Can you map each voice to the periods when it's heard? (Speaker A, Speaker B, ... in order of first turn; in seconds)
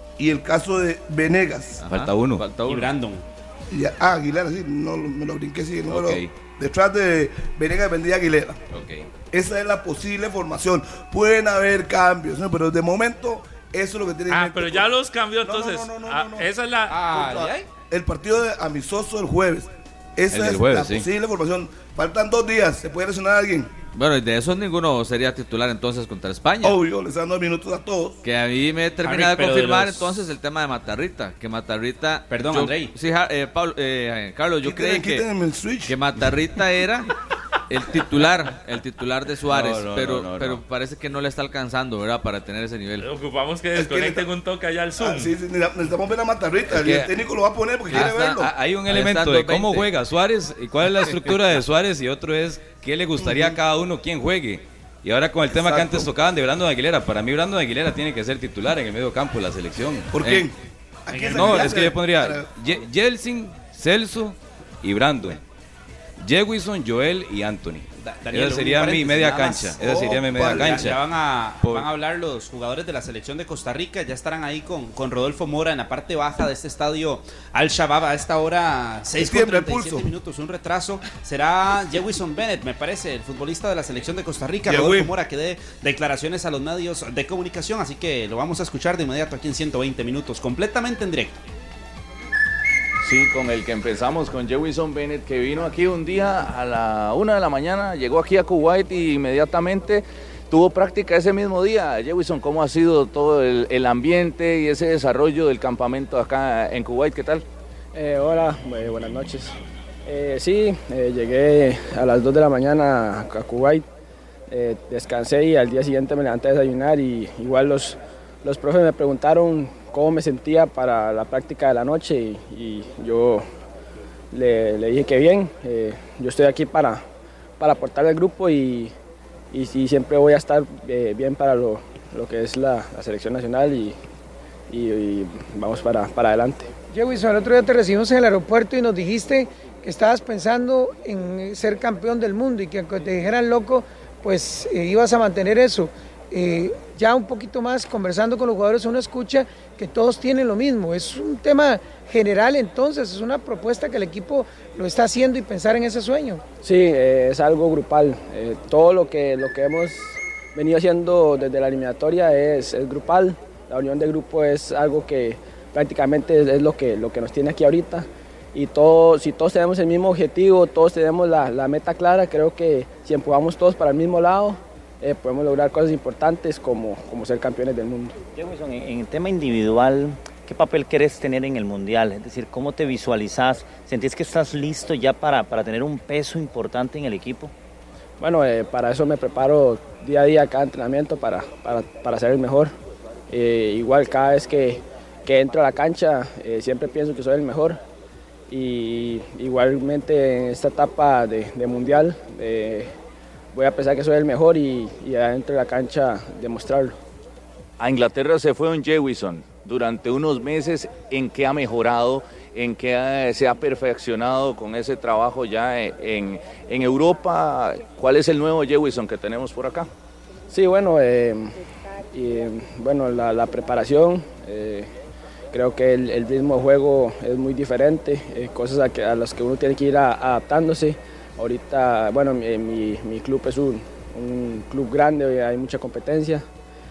Speaker A: 0.2-1.8, 3.7-8.6, 9.3-14.9, 15.4-23.7, 26.6-28.2, 34.6-36.0, 43.8-44.2, 45.0-48.5, 53.2-53.6, 55.5-56.1, 60.1-60.5, 61.0-62.5, 69.8-70.9, 79.1-80.1, 84.7-85.1
Speaker B: 1.8-2.4, 5.9-6.3, 8.7-9.1, 20.3-21.1, 39.5-40.6, 46.7-47.1, 47.9-60.5, 61.3-65.4, 66.2-71.0, 71.6-71.9
Speaker C: 1.8-2.9, 23.9-26.8, 28.2-35.2, 35.9-37.1, 37.7-43.0, 47.9-49.9
Speaker D: 2.5-3.2, 16.9-17.6, 29.0-30.2, 32.3-32.9, 61.1-61.8, 68.0-91.4
Speaker E: 14.3-17.0, 43.0-45.3
Speaker F: 93.0-107.5, 207.8-219.9
Speaker G: 107.9-113.8, 114.5-123.5, 124.3-127.0, 127.6-128.9, 129.5-133.9, 134.7-136.7, 156.6-178.1, 188.2-192.7, 193.3-197.8, 198.5-202.9, 203.5-206.9, 220.5-221.5, 222.1-224.9, 225.5-236.4
Speaker H: 136.9-156.4
Speaker I: 178.3-187.5